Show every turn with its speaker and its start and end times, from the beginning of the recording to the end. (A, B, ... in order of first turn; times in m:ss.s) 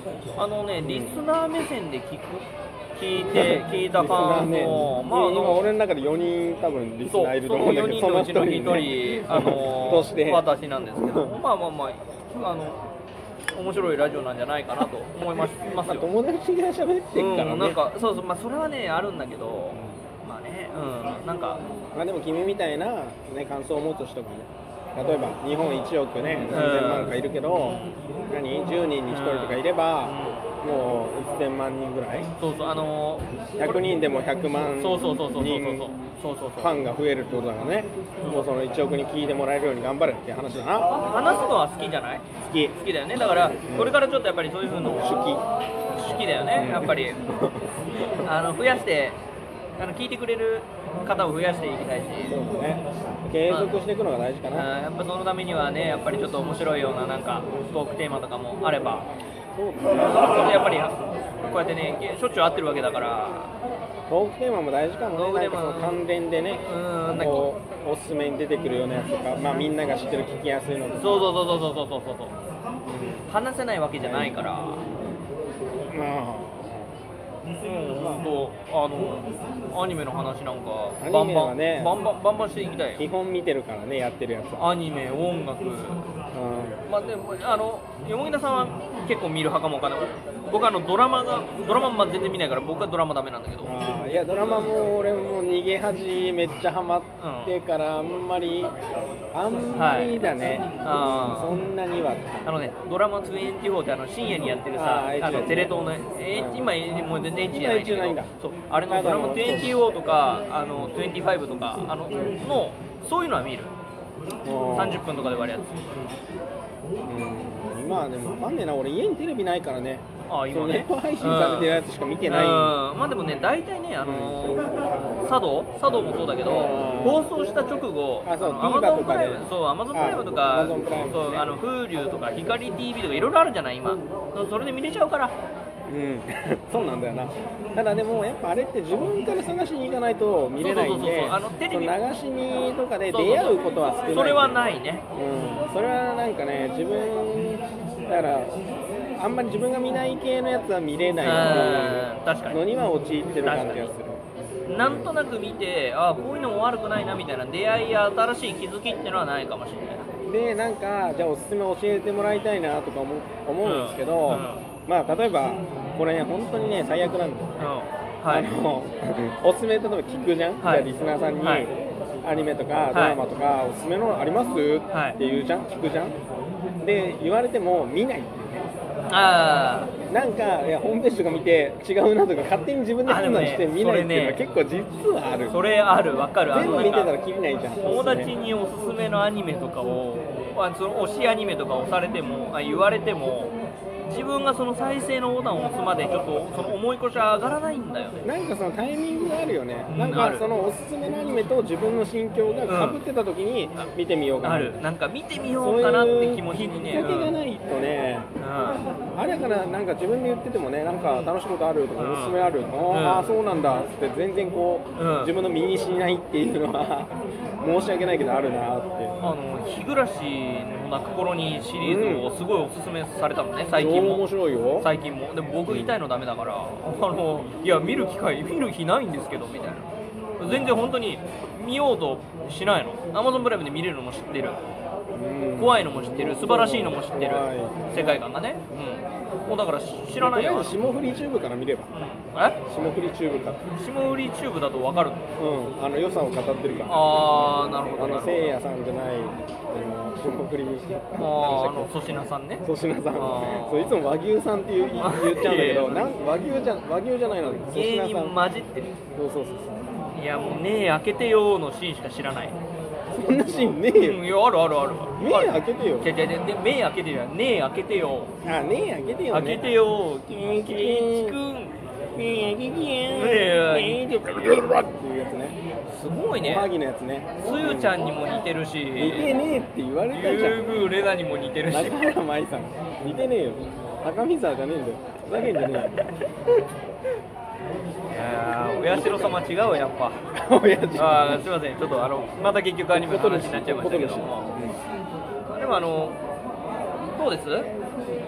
0:00.4-0:05.7 A
0:00.8-0:01.1 B
0:03.3-0:10.4 B
0:07.1-0:12.8 A
0:11.0-0:11.4 B
0:13.5-0:16.1 A
0:14.8-0:17.8 B
0:17.1-0:21.6 A
0:19.7-0:20.0 B
0:21.9-0:32.3 B
0:26.4-0:27.9 A
0:29.1-0:30.4 A
0:32.4-0:33.3 A
0:33.6-0:35.9 B
0:34.8-0:36.8 A
0:36.6-0:40.9 B
0:38.2-0:38.5 A
0:41.0-0:45.3 A
0:42.4-0:42.7 B
0:43.7-0:44.0 B
0:44.9-0:45.4 B
0:45.9-0:47.2 A
0:46.5-0:48.3 B
0:48.2-0:49.2 A
0:49.8-0:52.4 A
0:52.3-0:54.7 B
0:54.5-0:59.1 A
0:59.5-1:00.6 B
1:00.0-1:03.5 A
1:04.1-1:11.3 B
1:05.1-1:06.0 A
1:06.6-1:07.5 A
1:11.0-1:12.3 A
1:12.9-1:13.2 B
1:13.3-1:14.8 A
1:14.0-1:14.4 B
1:15.9-1:16.9 B
1:17.6-1:23.0 A
1:18.0-1:18.3 B
1:21.0-1:21.9 B
1:23.0-1:24.7 B
1:24.6-1:26.1 A
1:26.3-1:26.8 B
1:26.8-1:33.9 A
1:33.6-1:38.7 B
1:37.2-1:37.5 A
1:39.3-1:42.5 B
1:39.7-1:41.6 A
1:42.4-1:53.7 A
1:44.7-1:45.8 B
1:46.3-1:46.7 B
1:47.5-1:48.3 B
1:48.9-1:49.8 B
1:54.4-1:55.0 B
1:54.7-1:56.0 A
1:57.0-2:02.8 B
2:00.3-2:15.3 A
2:04.0-2:04.5 B
2:06.3-2:07.3 B
2:08.2-2:11.5 B
2:15.9-2:28.6 B
2:20.6-2:21.9 A
2:23.1-2:25.0 A
2:29.2-2:34.2 B
2:31.2-2:32.6 A
2:33.4-2:33.9 A
2:34.7-2:40.0 A
2:34.8-2:35.1 B
2:40.2-2:47.6 B
2:43.6-2:44.6 A
2:47.6-2:48.5 A
2:48.3-2:51.7 B
2:50.6-2:50.9 A
2:51.4-2:51.7 A
2:52.2-2:56.2 B
2:52.9-2:53.2 A
2:54.9-2:55.2 A
2:56.8-2:58.7 B
2:59.1-2:59.9 A
3:00.1-3:05.6 B
3:03.0-3:04.4 A
3:05.5-3:07.1 A
3:06.5-3:08.3 B
3:07.8-3:13.5 A
3:14.0-3:18.2 A
3:18.2-3:24.8 B
3:19.9-3:20.4 A
3:22.7-3:23.0 A
3:24.4-3:27.3 A
3:25.6-3:39.2 B
3:28.4-3:28.8 A
3:32.0-3:33.3 A
3:35.0-3:35.3 A
3:39.2-3:44.2 A
3:41.8-3:42.3 B
3:43.7-3:44.9 B
3:44.8-3:54.6 A
3:45.7-3:46.0 B
3:50.4-3:50.9 B
3:55.1-3:58.2 B
3:55.6-4:00.8 A
4:00.2-4:02.1 B
4:02.3-4:02.6 A
4:02.6-4:03.6 B
4:03.7-4:05.3 A
4:05.4-4:07.1 B
4:06.9-4:08.5 A
4:08.0-4:11.9 B
4:11.2-4:12.6 A
4:12.6-4:18.4 B
4:13.1-4:14.0 A
4:15.0-4:16.1 A
4:17.7-4:19.0 A
4:19.1-4:19.8 B
4:20.1-4:22.6 A
4:23.1-4:24.2 B
4:23.9-4:28.3 A
4:25.2-4:26.1 B
4:28.4-4:29.6 B
4:29.3-4:31.8 A
4:30.6-4:31.4 B
4:32.1-4:35.6 B
4:33.1-4:34.0 A
4:35.9-4:36.7 A
4:36.4-4:38.0 B
4:37.4-4:39.3 A
4:39.0-4:40.6 B
4:40.1-4:42.0 A
4:41.7-4:46.0 B
4:45.6-4:46.0 A
4:48.1-4:50.2 A
4:48.9-4:49.4 B
4:50.3-4:51.5 B
4:50.9-4:54.4 A
4:52.9-4:54.8 B
4:55.4-4:56.2 A
4:57.1-4:57.7 A